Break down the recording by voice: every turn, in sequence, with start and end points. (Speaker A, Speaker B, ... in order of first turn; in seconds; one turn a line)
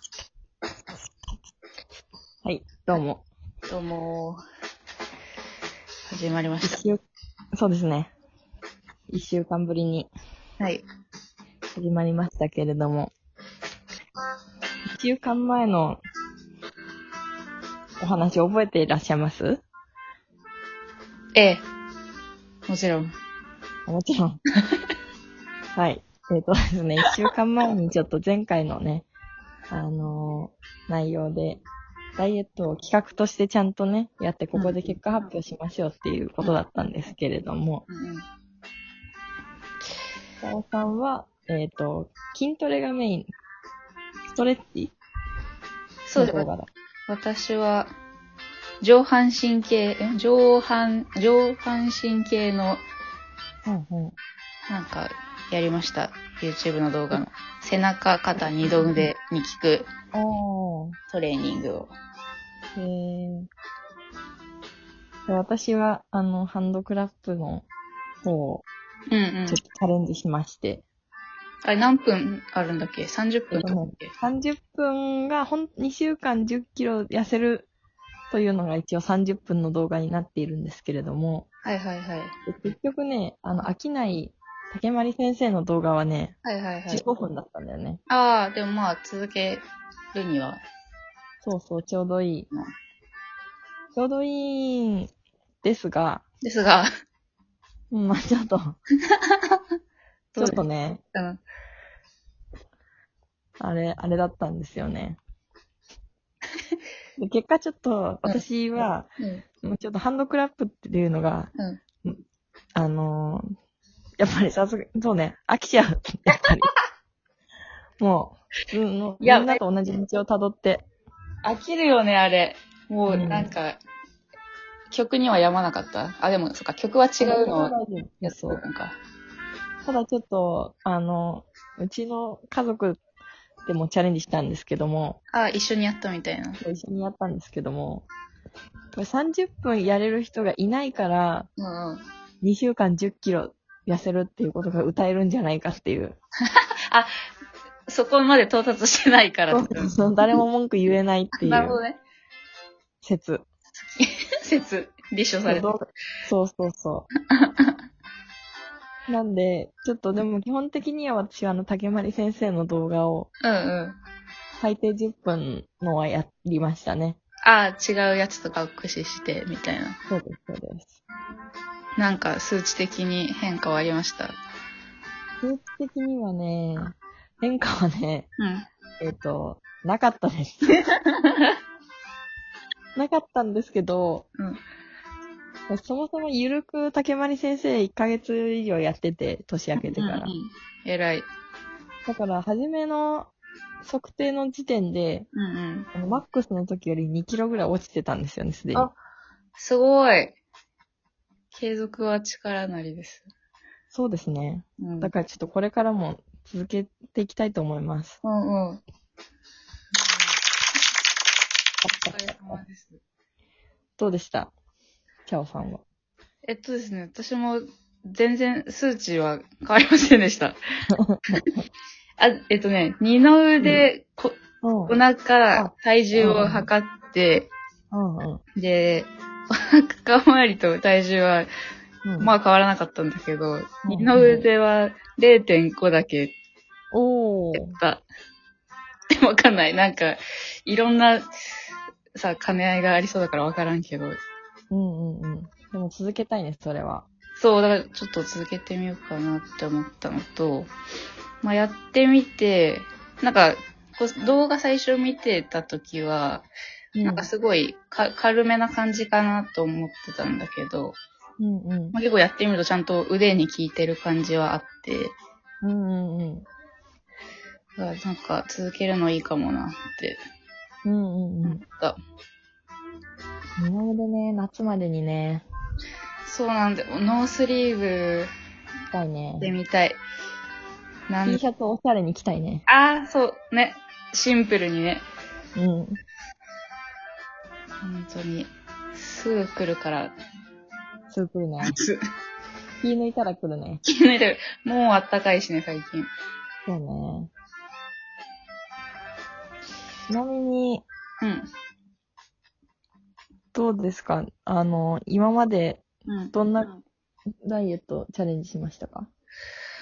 Speaker A: 2.4-3.2
Speaker B: 3.7-4.4
Speaker B: 6.1-6.8
Speaker A: 6.6-7.0
Speaker A: 7.5-8.1
Speaker A: 9.1-10.1
Speaker B: 10.6-10.8
Speaker A: 11.7-13.1
Speaker A: 14.9-16.0
Speaker A: 18.0-19.6
Speaker B: 21.3-21.6
Speaker B: 22.7-23.1
Speaker A: 23.9-24.4
Speaker A: 25.7-29.1
Speaker A: 29.7-31.6
Speaker A: 32.2-37.8
Speaker B: 34.5-35.3
Speaker B: 37.9-38.2
Speaker A: 40.4-43.3
Speaker A: 44.3-44.9
Speaker B: 46.1-46.5
Speaker A: 46.1-46.7
Speaker B: 47.1-47.9
Speaker B: 48.8-52.8
Speaker A: 53.6-54.1
Speaker B: 54.7-59.9
Speaker A: 58.6-59.0
Speaker A: 60.1-61.0
Speaker B: 61.1-61.9
Speaker A: 62.8-63.5
Speaker A: 65.3-67.7
Speaker A: 68.2-68.7
Speaker B: 69.1-69.6
Speaker A: 69.5-70.8
Speaker B: 71.6-74.1
Speaker A: 73.5-77.7
Speaker A: 78.3-81.5
Speaker B: 81.6-82.3
Speaker A: 82.5-86.3
Speaker B: 86.4-87.0
Speaker A: 86.9-88.0
Speaker B: 88.1-90.6
Speaker A: 91.4-92.5
Speaker A: 94.0-95.1
Speaker A: 95.6-96.2
Speaker B: 96.4-96.9
Speaker A: 97.9-98.8
Speaker B: 99.1-99.6
Speaker B: 100.3-100.6
Speaker A: 100.4-101.0
Speaker B: 101.1-101.4
Speaker A: 103.6-105.2
Speaker A: 107.2-109.1
Speaker B: 109.2-109.4
Speaker A: 109.6-111.5
Speaker A: 112.7-113.5
Speaker A: 114.2-116.7
Speaker A: 118.0-120.8
Speaker B: 119.2-119.6
Speaker B: 121.4-123.8
Speaker A: 123.1-123.5
Speaker B: 124.9-129.0
Speaker A: 127.2-128.6
Speaker A: 129.8-133.0
Speaker A: 133.7-135.2
Speaker B: 135.3-136.6
Speaker A: 136.6-138.1
Speaker A: 138.9-141.5
Speaker B: 141.6-142.0
Speaker A: 142.4-146.2
Speaker B: 146.4-147.1
Speaker B: 147.9-149.9
Speaker A: 149.5-151.8
Speaker B: 151.4-152.0
Speaker A: 153.0-153.4
Speaker B: 153.9-155.7
Speaker A: 155.4-157.1
Speaker B: 157.3-157.7
Speaker A: 159.1-163.3
Speaker B: 163.4-164.0
Speaker A: 164.6-167.2
Speaker B: 167.4-169.9
Speaker A: 170.1-170.9
Speaker B: 172.0-174.3
Speaker A: 175.4-178.3
Speaker B: 178.4-178.6
Speaker A: 179.0-180.8
Speaker B: 180.7-181.5
Speaker A: 182.9-184.3
Speaker A: 185.7-190.3
Speaker B: 189.8-191.3
Speaker A: 192.1-193.3
Speaker A: 193.8-195.3
Speaker B: 195.3-195.9
Speaker A: 195.9-198.9
Speaker B: 199.6-200.4
Speaker B: 201.5-203.3
Speaker A: 203.9-208.2
Speaker B: 204.8-205.1
Speaker B: 208.2-208.8
Speaker B: 210.0-210.3
Speaker A: 211.8-212.6
Speaker B: 211.9-213.0
Speaker A: 214.0-214.5
Speaker A: 215.2-215.8
Speaker B: 216.4-220.6
Speaker A: 220.9-221.4
Speaker B: 222.2-224.3
Speaker A: 224.6-225.0
Speaker B: 224.9-227.5
Speaker A: 225.5-226.7
Speaker A: 227.9-228.4
Speaker B: 228.6-231.5
Speaker A: 232.0-232.3
Speaker B: 232.2-236.3
Speaker A: 233.9-234.4
Speaker A: 236.9-237.8
Speaker B: 237.5-238.0
Speaker B: 239.2-241.2
Speaker B: 242.1-244.2
Speaker A: 244.7-247.1
Speaker B: 247.4-250.7
Speaker B: 251.4-256.5
Speaker A: 256.9-257.3
Speaker B: 257.0-260.9
Speaker A: 261.4-261.9
Speaker B: 261.9-265.1
Speaker A: 265.6-266.4
Speaker B: 267.8-270.2
Speaker A: 270.8-271.6
Speaker B: 271.4-272.0
Speaker A: 273.6-275.4
Speaker B: 276.2-278.3
Speaker A: 278.9-279.5
Speaker B: 279.4-280.0
Speaker B: 281.1-281.4
Speaker A: 281.2-282.6
Speaker B: 282.7-285.0
Speaker A: 285.6-286.0
Speaker B: 287.8-290.1
Speaker A: 291.1-291.8
Speaker B: 291.6-292.0
Speaker A: 292.8-293.8
Speaker B: 293.8-296.1
Speaker A: 296.6-297.3
Speaker A: 300.1-300.8
Speaker B: 301.2-301.5
Speaker A: 303.5-306.7
Speaker B: 306.1-306.8
Speaker A: 307.4-309.1